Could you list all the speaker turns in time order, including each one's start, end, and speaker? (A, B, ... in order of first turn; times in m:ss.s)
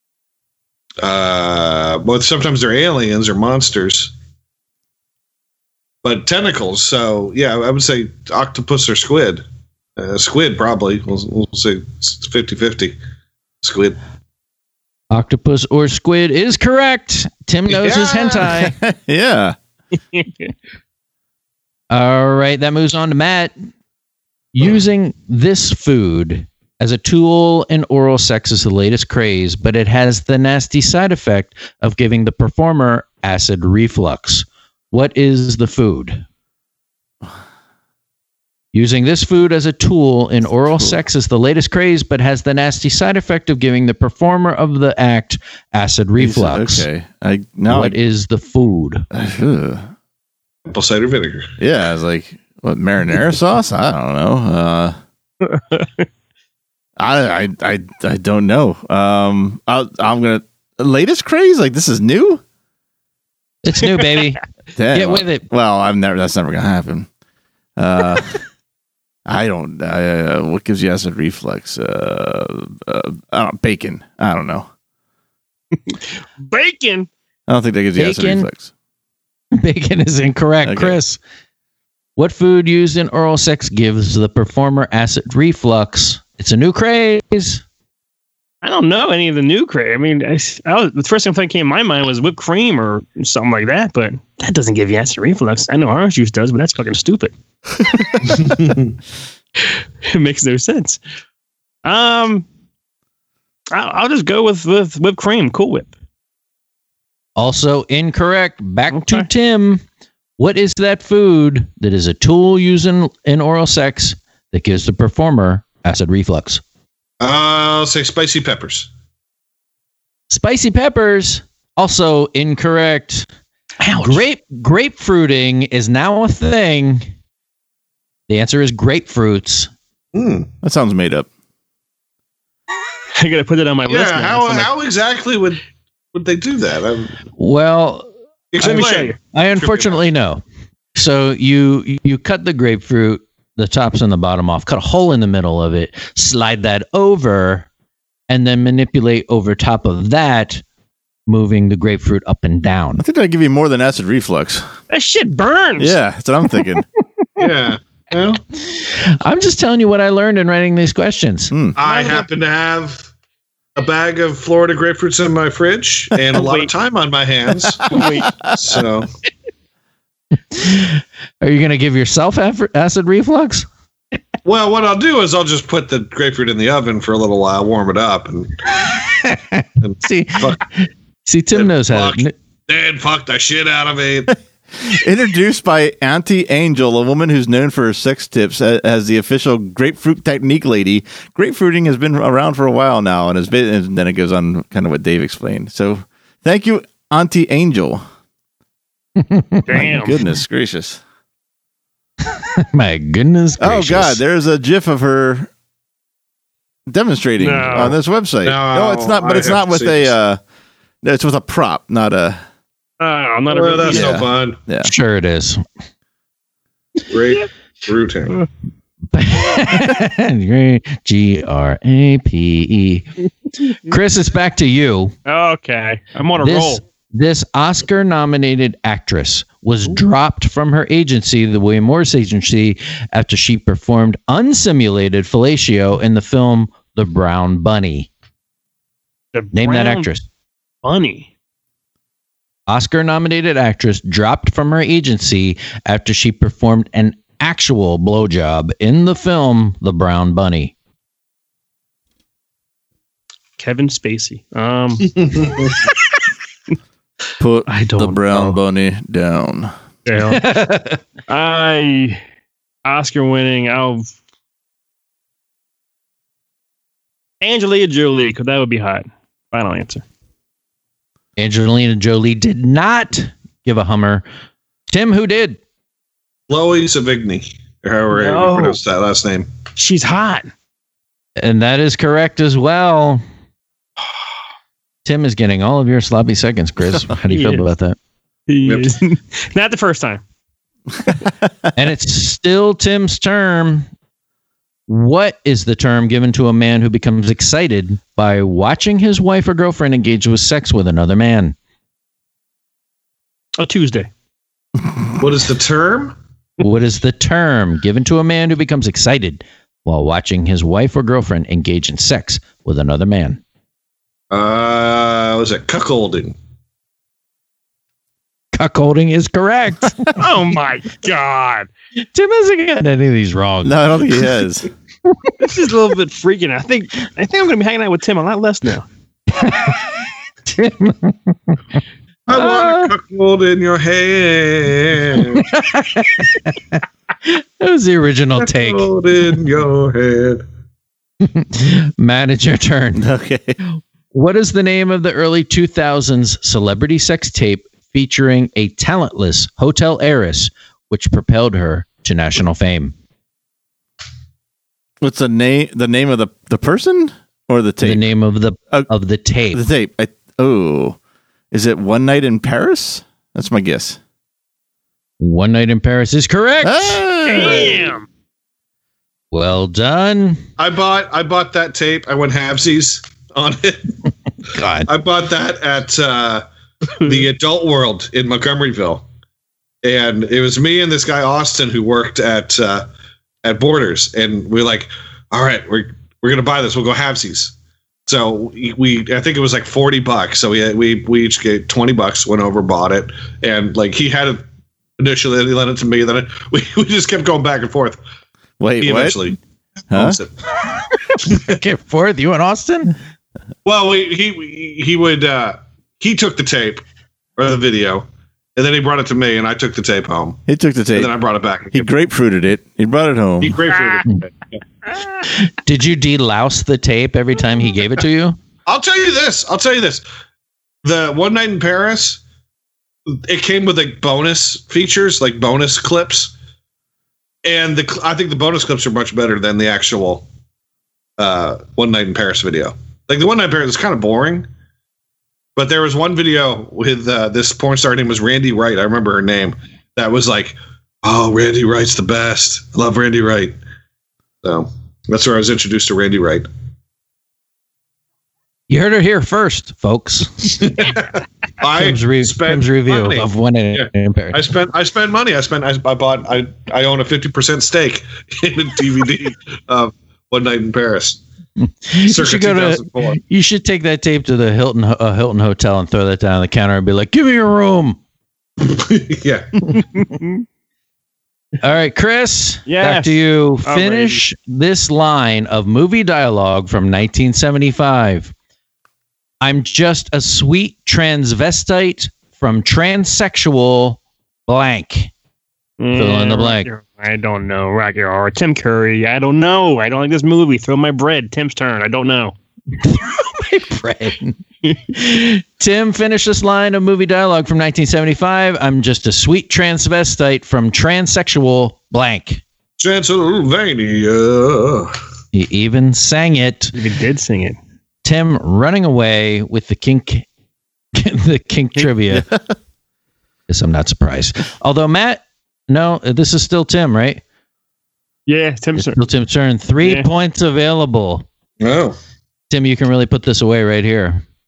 0:01.0-0:04.1 A
0:06.0-0:09.4 A
0:10.0-0:13.0 A
0:13.6-0:14.0 A
0:15.1-0:18.8 B
0:17.7-0:18.5 A
0:18.4-0:19.6 C
0:20.1-0:20.5 D
0:21.9-0:23.6 B
0:24.5-0:36.2 B
0:38.7-0:46.9 B
0:40.7-0:41.0 C
0:46.2-0:48.0 C
0:47.7-0:49.1 B
0:49.1-0:49.9 C
0:50.7-0:51.5 A
0:51.6-0:55.0 C
0:55.4-0:56.1 D
0:57.0-1:02.4 C
1:03.6-1:04.4 B
1:04.8-1:07.1 C
1:04.9-1:05.4 B
1:07.8-1:08.4 C
1:09.3-1:14.7 C
1:15.9-1:17.1 D
1:17.5-1:18.7 C
1:18.0-1:18.5 B
1:19.5-1:21.2 B
1:20.6-1:21.0 C
1:22.2-1:27.6 B
1:28.6-1:37.3 D
1:38.4-1:38.9 A
1:39.6-1:41.0 D
1:41.8-1:42.4 D
1:43.7-1:45.9 D
1:47.4-1:49.8 B
1:48.9-1:49.3 D
1:50.4-1:56.6 B
1:57.2-1:58.9 A
2:00.3-2:03.3 B
2:03.8-2:07.1 B
2:08.3-2:09.7 B
2:10.1-2:10.5 A
2:10.6-2:11.3 C
2:13.1-2:14.7 D
2:13.9-2:15.6 A
2:16.1-2:17.2 A
2:17.4-2:20.4 B
2:18.5-2:20.0 A
2:18.6-2:19.1 D
2:21.0-2:27.7 B
2:28.3-2:30.6 B
2:31.3-2:33.0 B
2:33.0-2:34.6 C
2:34.9-2:35.9 D
2:35.8-2:36.8 C
2:37.4-2:38.4 A
2:38.7-2:41.5 B
2:41.5-2:41.8 C
2:41.8-2:43.1 A
2:41.8-2:42.3 D
2:43.8-2:48.0 A
2:46.3-2:46.7 D
2:47.8-2:48.8 C
2:47.9-2:48.3 D
2:48.6-2:49.1 A
2:50.5-2:53.7 B
2:54.4-2:58.6 A
2:59.1-3:02.4 B
2:59.8-3:00.6 A
3:01.5-3:04.4 A
3:04.8-3:18.0 C
3:19.2-3:19.8 B
3:19.7-3:20.2 D
3:19.7-3:21.0 C
3:22.4-3:24.2 B
3:23.6-3:25.5 C
3:26.9-3:30.4 C
3:27.4-3:28.0 D
3:28.4-3:30.1 A
3:31.0-3:32.4 C
3:33.0-3:34.2 D
3:33.5-3:34.6 A
3:33.9-3:34.9 C
3:34.8-3:35.6 B
3:37.1-3:38.4 A
3:39.1-3:43.1 B
3:43.9-3:45.1 B
3:45.3-3:46.8 D
3:46.4-3:58.1 B
3:59.3-4:00.1 D
3:59.5-4:00.2 B
4:00.8-4:01.3 D
4:02.7-4:10.7 B
4:13.6-4:15.2 D
4:15.2-4:15.7 A
4:17.4-4:19.7 C
4:17.7-4:18.6 D
4:20.1-4:20.5 D
4:20.3-4:21.0 B
4:21.3-4:22.2 D
4:22.8-4:24.1 D
4:27.4-4:30.0 D
4:31.4-4:34.2 B
4:34.9-4:35.6 B
4:36.5-4:39.5 A
4:38.1-4:38.8 D
4:39.8-4:40.5 D
4:41.4-4:43.2 B
4:45.0-4:48.0 B
4:47.3-4:47.6 D
4:48.5-4:50.2 D
4:48.6-4:48.9 A
4:51.8-4:53.9 B
4:54.9-5:01.6 B
5:03.6-5:04.1 D
5:05.2-5:06.2 A
5:06.6-5:13.4 B
5:14.3-5:16.4 A
5:18.5-5:20.1 B
5:20.2-5:21.7 D
5:22.1-5:23.8 B
5:23.6-5:24.7 C
5:25.4-5:28.9 D
5:29.4-5:29.8 B
5:30.5-5:31.6 B
5:32.3-5:35.5 A
5:32.3-5:32.9 B
5:35.2-5:38.9 B
5:38.4-5:40.4 A
5:41.2-5:43.0 B
5:42.9-5:43.6 C
5:44.1-5:52.9 B
5:55.0-5:58.0 C
5:57.8-5:59.6 B
5:59.5-6:01.0 C
6:01.5-6:04.0 C
6:05.2-6:07.0 B
6:06.6-6:07.9 C
6:07.2-6:08.1 D
6:09.3-6:10.4 B
6:10.6-6:13.9 A
6:14.5-6:14.9 B
6:14.9-6:16.5 A
6:17.0-6:19.0 A
6:19.8-6:22.9 A
6:23.4-6:27.5 A
6:28.1-6:34.5 A
6:35.0-6:38.0 A
6:38.6-6:39.2 C
6:38.8-6:39.4 A
6:39.9-6:40.2 C
6:39.9-6:40.3 A
6:41.2-6:42.9 B
6:43.6-6:46.8 A
6:47.4-6:50.4 A
6:50.5-6:51.1 C
6:50.9-6:51.9 A
6:51.7-6:53.6 C
6:53.4-6:54.6 A
6:55.3-6:58.4 B
6:58.7-7:00.0 A
7:00.8-7:02.2 A
7:03.2-7:06.3 A
7:07.4-7:10.2 A
7:11.2-7:14.5 A
7:15.6-7:23.6 A
7:24.4-7:26.5 A
7:28.7-7:30.7 B
7:30.6-7:41.2 A
7:31.7-7:34.5 B
7:41.6-7:48.0 B
7:42.0-7:43.2 A
7:48.6-7:49.8 A
7:51.6-7:58.3 B
7:52.7-7:54.2 D
7:59.4-8:05.1 B
8:05.8-8:12.4 D
8:05.9-8:06.7 B
8:12.8-8:14.4 B
8:14.9-8:22.4 B
8:22.8-8:24.9 A
8:25.3-8:26.8 B
8:26.8-8:27.6 D
8:28.0-8:30.2 B
8:30.9-8:32.2 B
8:32.1-8:32.5 C
8:33.5-8:37.2 B
8:38.3-8:39.0 D
8:38.8-8:41.2 B
8:41.6-8:42.0 A
8:42.5-8:44.2 B